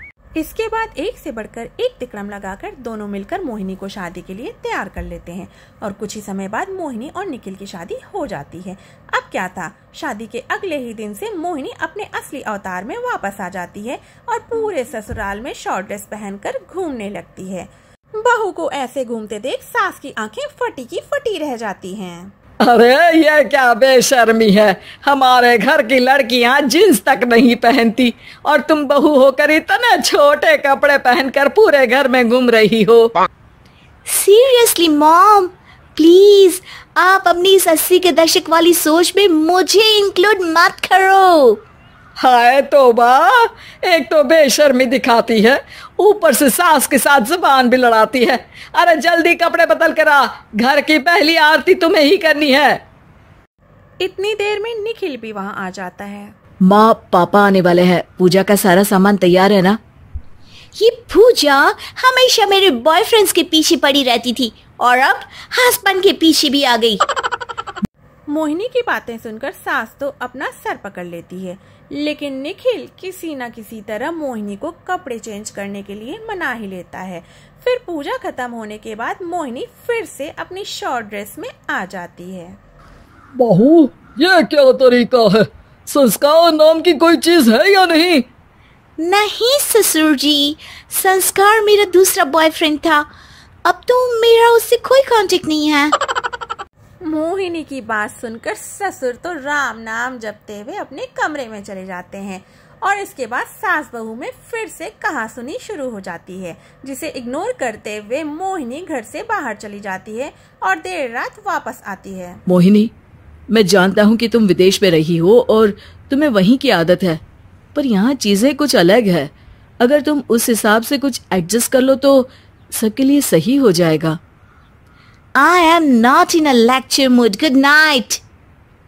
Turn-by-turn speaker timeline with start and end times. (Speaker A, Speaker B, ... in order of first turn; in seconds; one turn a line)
Speaker A: 0.4-22.3
Speaker B: 22.6-33.1
Speaker C: 34.1-41.6
Speaker B: 42.2-52.8
Speaker A: 54.0-56.3
Speaker B: 56.6-59.8
Speaker C: 60.8-67.0
Speaker A: 68.3-82.6
Speaker B: 83.4-88.3
Speaker C: 89.0-93.1
Speaker C: 93.7-96.0
Speaker A: 97.0-112.4
Speaker B: 112.5-112.9
Speaker B: 113.5-117.2
Speaker B: 117.8-124.2
Speaker C: 125.4-128.2